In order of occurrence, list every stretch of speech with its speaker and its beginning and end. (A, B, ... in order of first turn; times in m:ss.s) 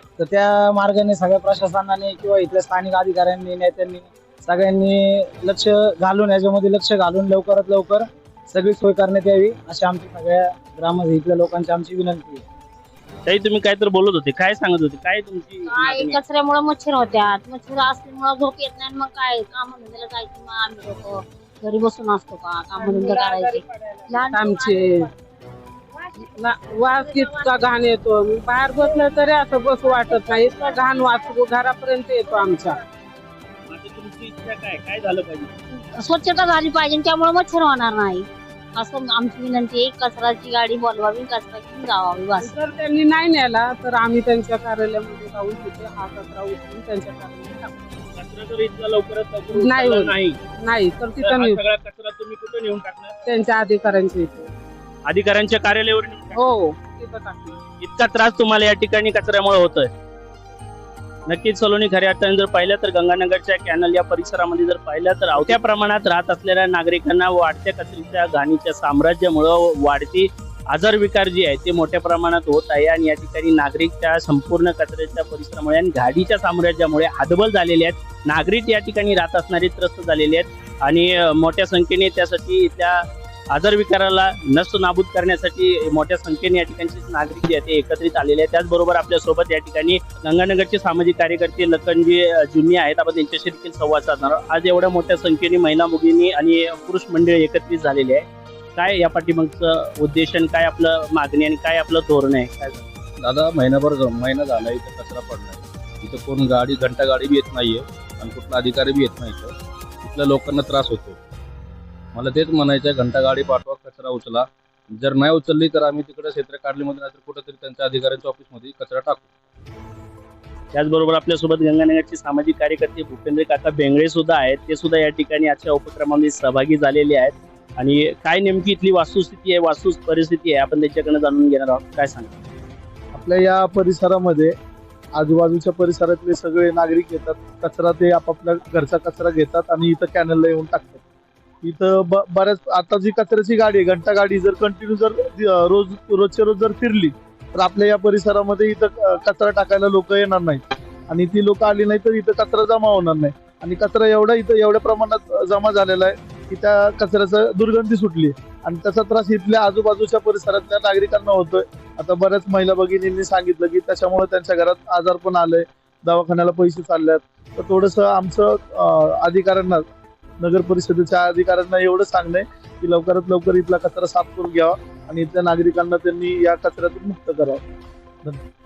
0:00.2-0:12.4 A
0:13.2-0:16.2 B
0:15.7-0:24.7 C
0:24.3-0:25.1 D
0:26.3-0:32.8 D
0:33.7-0:35.5 B
0:35.9-0:42.5 C
0:42.4-0:47.7 D
0:48.1-0:50.4 B
0:49.5-0:51.6 D
0:51.2-0:53.1 B
0:53.2-0:54.5 D
0:55.1-0:56.4 B
0:56.3-0:57.6 D
0:57.8-0:59.9 B
1:01.3-1:42.8 B
1:43.2-1:51.2 E
1:52.1-1:59.3 E
2:00.7-2:12.3 B
2:13.1-2:14.5 F
2:15.2-2:21.0 F
2:21.6-2:49.8 F
2:50.4-2:57.6 F